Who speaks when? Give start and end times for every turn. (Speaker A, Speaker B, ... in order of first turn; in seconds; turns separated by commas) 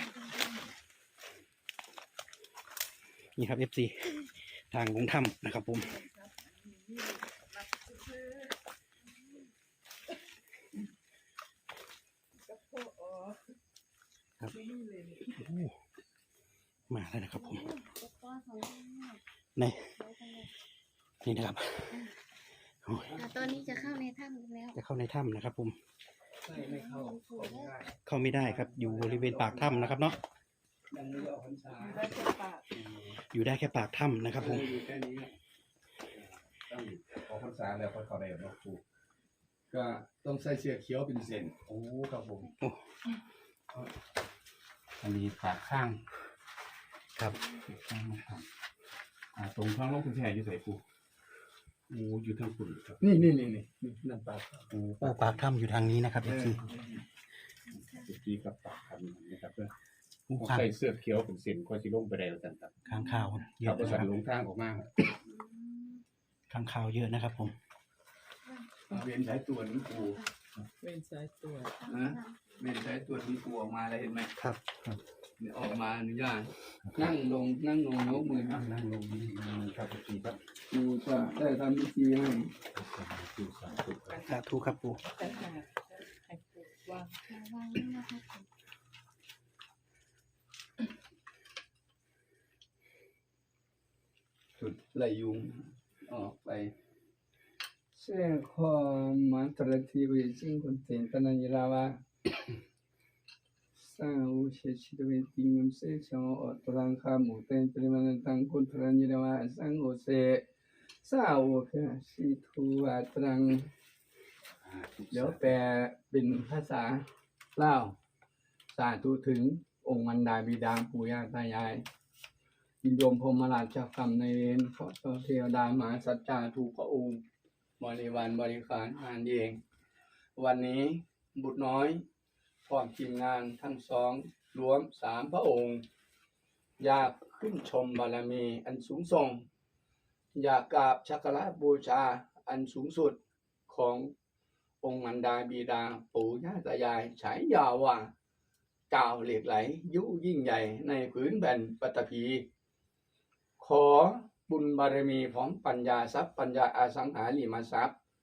Speaker A: 3.4-6.0, Speaker B: 5.9-8.4, Speaker B: 12.4-13.4, Speaker B: 14.5-15.4, Speaker A: 15.3-15.8, Speaker A: 16.9-17.7, Speaker C: 17.3-19.2, Speaker A: 19.6-19.9, Speaker C: 19.9-20.5, Speaker A: 21.2-22.1, Speaker C: 21.9-22.2, Speaker A: 22.8-23.1, Speaker D: 23.1-23.8, Speaker C: 23.1-24.8, Speaker A: 24.8-25.8, Speaker D: 26.4-30.1, Speaker C: 26.5-27.7, Speaker A: 28.1-30.2, Speaker D: 30.9-32.1, Speaker B: 31.8-32.7, Speaker A: 33.1-34.7, Speaker D: 34.4-35.3, Speaker E: 36.7-38.8, Speaker D: 39.7-41.6, Speaker E: 41.7-42.5, Speaker E: 45.0-46.0, Speaker E: 47.7-48.5, Speaker E: 49.4-50.8, Speaker E: 51.9-53.1, Speaker D: 53.0-54.7, Speaker E: 54.7-55.5, Speaker A: 55.0-56.6, Speaker D: 56.2-56.6, Speaker E: 57.8-59.7, Speaker A: 60.3-60.7, Speaker E: 60.4-62.8, Speaker A: 62.9-64.1, Speaker E: 63.5-65.0, Speaker C: 65.3-66.0, Speaker A: 66.5-67.5, Speaker D: 68.9-70.2, Speaker B: 70.8-71.8, Speaker C: 71.8-72.6, Speaker D: 71.9-74.3, Speaker A: 74.4-75.0, Speaker D: 75.4-78.7, Speaker E: 78.7-80.4, Speaker D: 80.7-82.5, Speaker E: 82.7-84.2, Speaker B: 84.1-84.4, Speaker A: 84.2-85.0, Speaker B: 85.0-87.2, Speaker C: 87.2-88.5, Speaker D: 94.6-96.7, Speaker D: 97.9-102.0, Speaker D: 103.8-110.4, Speaker D: 111.0-113.7, Speaker A: 114.7-115.4, Speaker D: 115.1-118.0, Speaker D: 118.7-121.8, Speaker D: 122.8-127.2, Speaker D: 127.8-129.6, Speaker D: 130.4-132.1, Speaker D: 132.7-135.8, Speaker D: 136.8-139.5, Speaker D: 140.3-144.1, Speaker D: 144.8-148.1, Speaker D: 148.9-152.5, Speaker D: 153.6-158.0